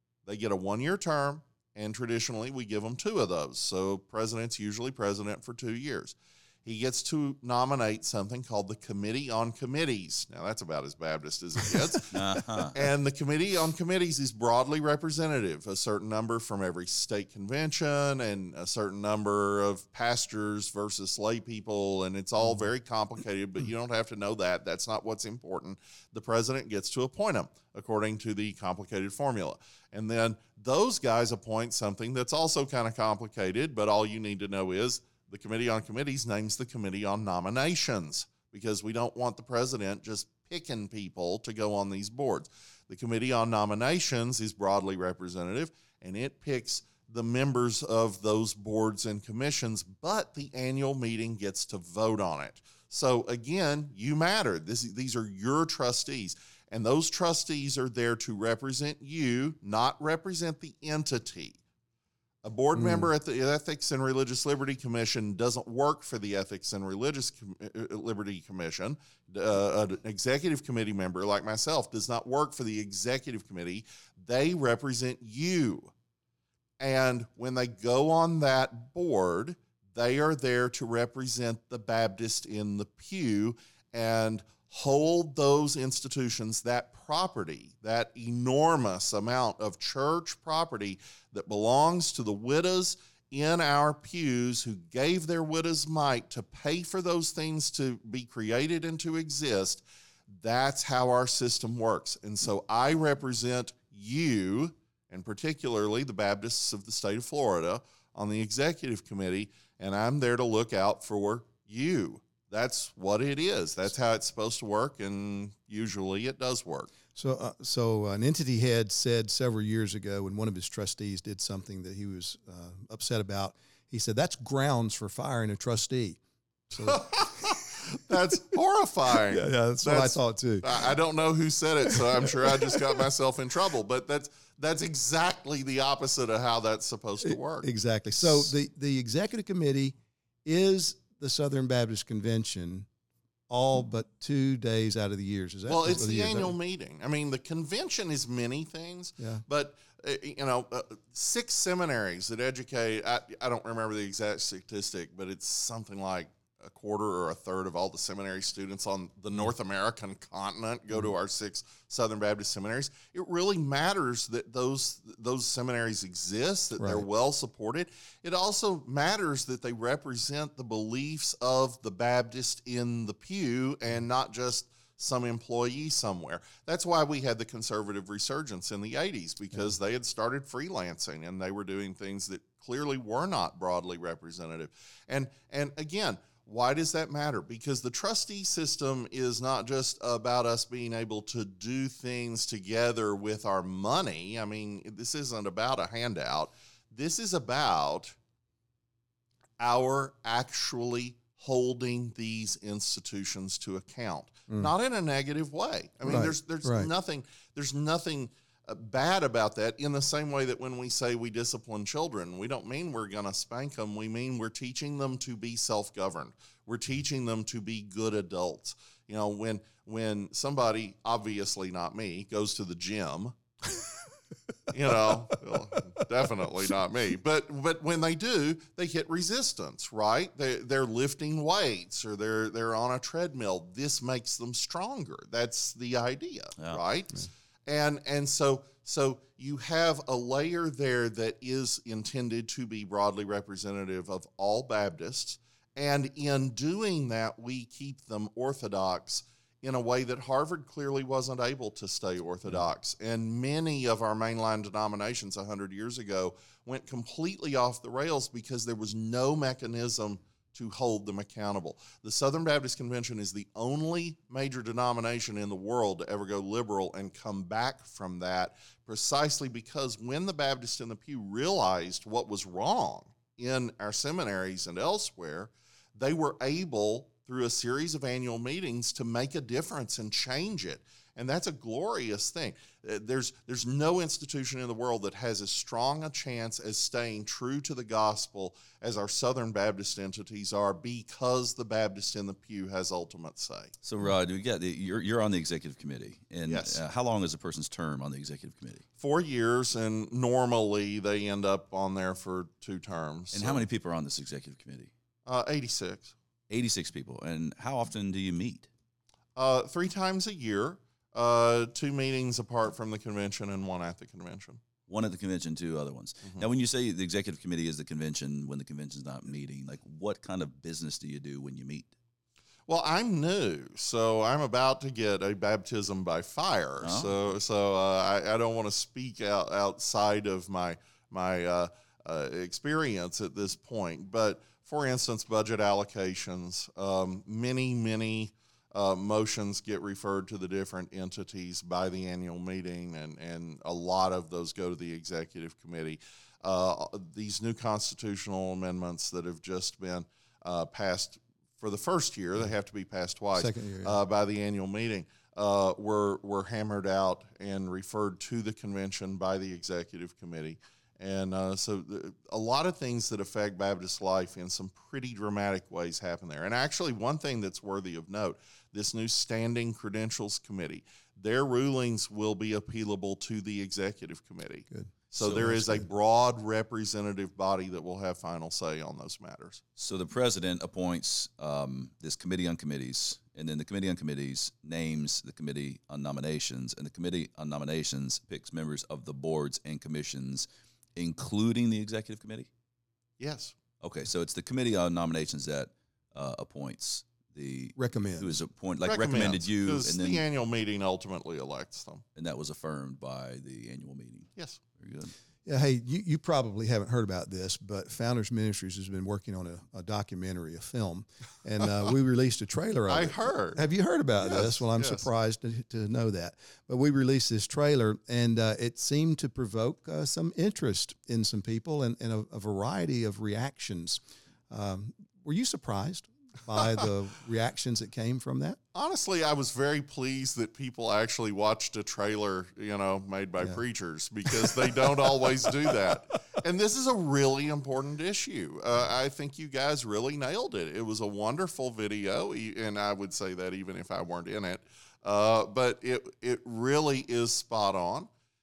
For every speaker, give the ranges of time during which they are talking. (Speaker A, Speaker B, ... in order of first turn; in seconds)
Speaker A: 0.2-61.6, 62.4-75.9, 76.8-116.9, 126.8-138.5, 145.7-198.2, 199.6-223.3, 224.7-293.7, 296.5-296.8, 299.0-303.6, 305.2-306.1, 309.4-314.6, 322.7-379.6, 393.2-393.6, 398.8-402.0, 412.9-413.6, 414.2-415.1, 428.7-448.1
Speaker B: 12.1-12.7, 293.8-298.8, 303.3-304.9, 306.5-308.7, 314.9-321.9, 326.8-327.1, 375.2-375.5, 379.8-392.5, 393.8-400.2, 402.1-405.1
Speaker C: 62.7-63.1, 117.1-126.2, 126.7-127.6, 129.3-130.9, 131.9-132.8, 137.2-142.9, 143.5-146.5, 149.2-149.4, 166.8-167.1, 206.0-206.9, 353.3-354.0, 374.7-375.9, 397.8-398.4, 405.4-428.6